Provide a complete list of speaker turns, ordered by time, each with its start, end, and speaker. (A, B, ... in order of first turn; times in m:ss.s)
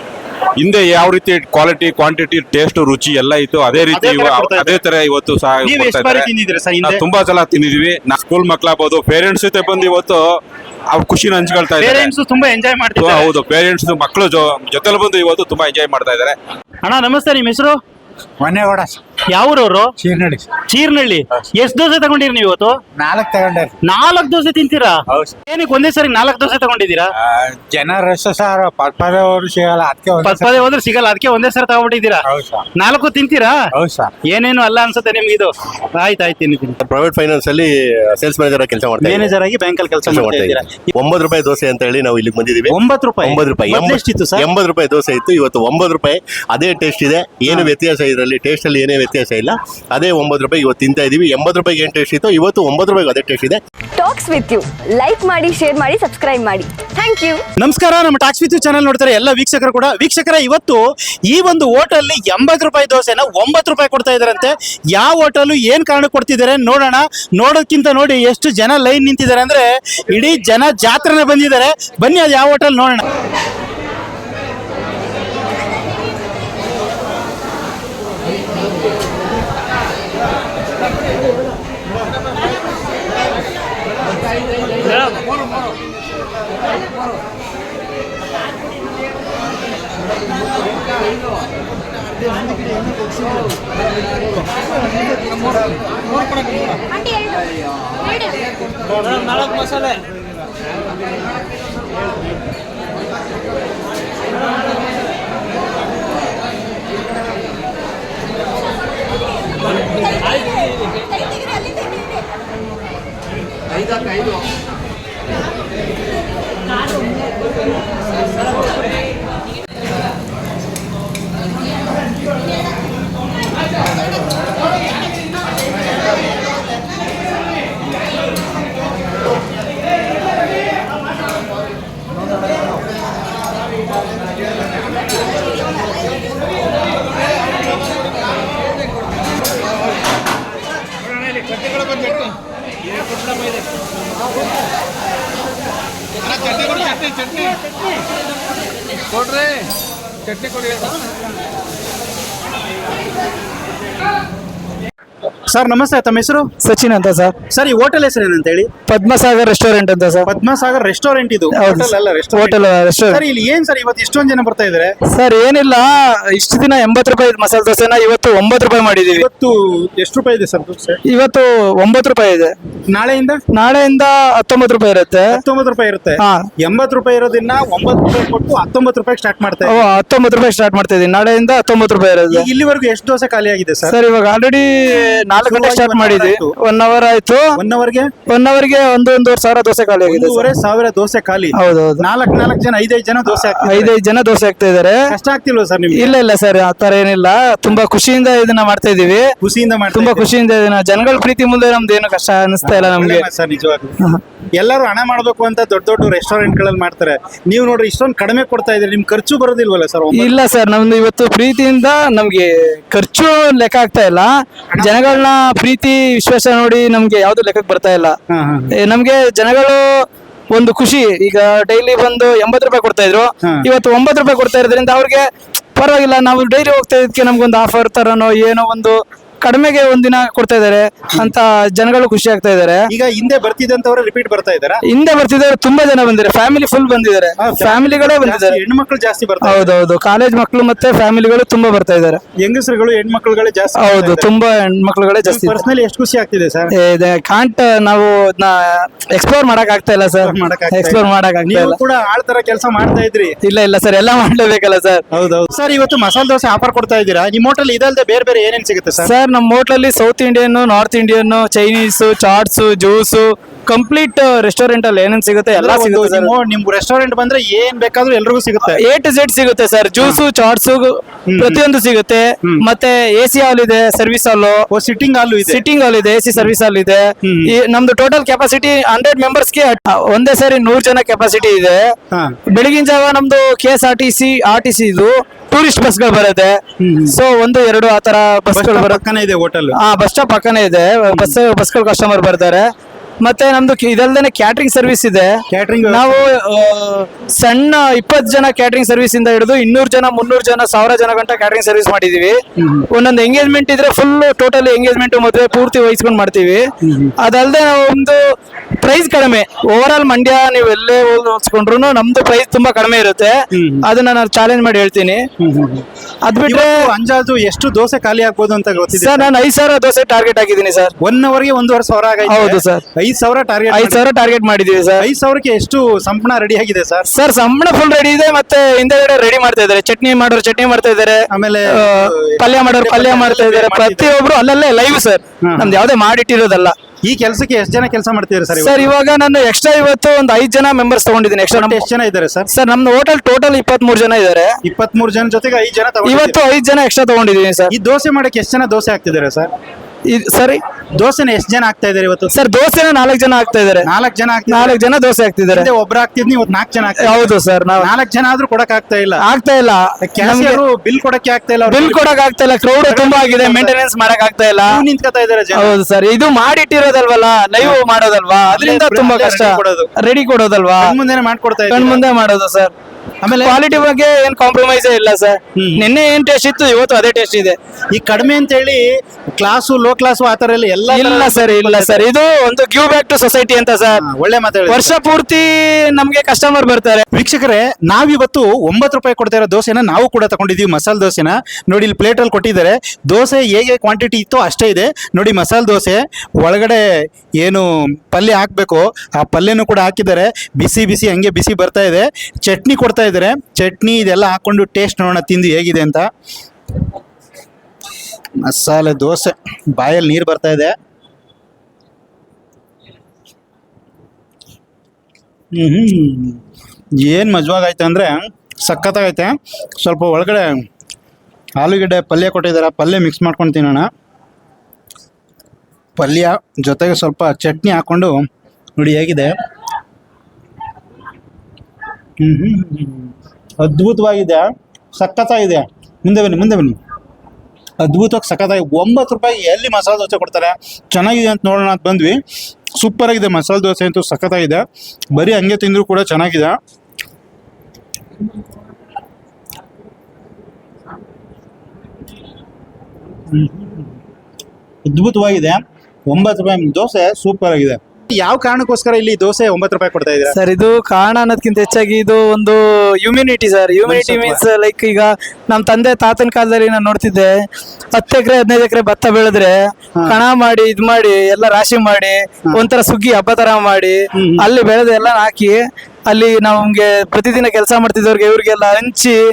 0:00.6-0:06.3 A
0:03.9-0:04.8 B
0:05.6-0:07.0 B
0:06.8-0:12.1 A
0:11.8-0:13.3 B
0:13.0-0:16.4 A
0:16.8-0:17.8 B
0:18.4-0:18.9 C
0:19.2-0:22.9 B
0:20.0-0:20.4 C
0:23.0-0:23.7 C
0:23.8-0:27.1 B
0:27.4-0:28.1 A
0:28.1-0:30.3 C
0:30.2-0:33.6 B
0:32.3-0:32.6 A
0:33.8-0:34.1 A
0:34.2-0:36.8 B
0:36.8-0:39.3 D
0:39.0-0:40.8 B
0:40.0-0:53.6 D
0:42.7-0:44.5 B
0:47.5-0:47.7 B
0:54.0-0:57.4 E
0:57.6-1:13.0 B
2:35.5-2:36.5 B
2:36.6-2:37.3 F
2:37.5-2:38.7 B
2:38.9-2:40.3 F
2:40.3-2:44.9 B
2:41.5-2:43.2 F
2:45.1-2:49.2 F
2:49.1-2:51.0 B
2:51.1-2:52.5 F
2:52.9-2:53.4 B
2:53.5-2:55.4 F
2:55.3-2:59.8 B
2:56.2-2:56.5 F
2:59.6-3:02.4 F
3:02.3-3:04.0 B
3:03.9-3:07.5 F
3:05.4-3:06.5 B
3:07.6-3:08.1 B
3:08.3-3:10.4 F
3:10.0-3:13.9 B
3:11.6-3:12.0 F
3:13.6-3:15.0 F
3:15.1-3:16.1 B
3:15.9-3:19.3 F
3:19.4-3:20.3 B
3:19.9-3:23.2 F
3:22.6-3:24.0 B
3:24.6-3:30.3 B
3:30.1-3:38.2 F
3:34.7-3:35.2 B
3:38.3-3:38.7 B
3:38.7-3:39.8 F
3:40.5-3:52.9 F
3:52.9-3:54.8 B
3:54.8-3:58.6 F
3:57.4-3:59.7 B
3:59.4-4:02.2 F
4:02.4-4:04.3 B
4:03.8-4:05.6 F
4:05.2-4:06.7 B
4:06.7-4:11.8 F
4:10.2-4:13.3 B
4:13.4-4:15.0 F
4:15.1-4:19.1 B
4:19.0-4:26.3 F
4:25.6-4:28.8 B
4:28.6-4:34.6 F
4:31.3-4:31.6 B
4:34.7-4:35.6 B
4:35.5-4:41.9 F
4:37.2-4:37.5 B
4:42.5-4:46.6 F
4:46.8-4:47.2 B
4:47.1-4:49.0 F
4:48.5-4:49.8 B
4:49.8-4:52.6 F
4:51.1-4:51.3 B
4:53.2-5:02.4 F
4:55.5-4:56.2 B
5:02.6-5:02.9 B
5:02.9-5:06.6 F
5:06.8-5:07.1 B
5:07.2-5:08.2 F
5:08.8-5:15.2 F
5:13.5-5:13.8 B
5:15.4-5:15.8 B
5:16.2-5:16.7 F
5:16.4-5:19.3 B
5:18.9-5:20.9 F
5:21.0-5:24.0 B
5:22.3-5:22.8 F
5:23.7-5:25.0 F
5:25.0-5:27.1 B
5:27.1-5:36.7 F
5:31.3-5:34.1 B
5:35.4-5:35.8 B
5:37.0-5:38.9 B
5:38.6-5:41.8 F
5:41.5-5:42.5 B
5:42.5-5:44.6 F
5:44.6-5:46.4 B
5:46.0-5:47.7 F
5:47.7-5:49.5 B
5:50.1-5:50.6 F
5:51.0-5:52.3 B
5:52.3-5:53.9 F
5:53.8-5:54.8 B
5:54.5-5:55.7 F
5:55.5-5:59.2 B
5:57.0-5:57.9 F
5:59.2-6:00.6 F
6:00.0-6:02.1 B
6:01.7-6:04.8 F
6:02.8-6:03.7 B
6:04.7-6:05.8 B
6:05.5-6:10.9 F
6:08.5-6:09.9 B
6:10.8-6:12.0 B
6:11.7-6:12.7 F
6:13.2-6:13.6 B
6:13.3-6:17.6 F
6:15.6-6:15.9 B
6:17.9-6:22.1 B
6:20.9-6:24.0 F
6:23.9-6:24.9 B
6:24.7-6:27.0 F
6:27.1-6:36.8 B
6:37.4-6:46.1 B
6:48.5-6:50.7 B
6:55.5-6:56.4 B
6:57.0-7:00.6 B
7:01.6-7:03.9 B
7:06.0-7:08.2 B
7:08.8-7:09.3 B
7:12.2-7:16.8 B
7:17.8-7:22.2 B
7:22.8-7:24.6 B
7:25.1-7:26.6 B
7:33.3-7:33.9 B
7:34.8-7:40.4 B
7:40.3-7:47.3 F
7:43.8-7:44.4 B
7:47.9-7:49.5 F
7:50.0-7:59.2 F
7:54.1-7:54.5 B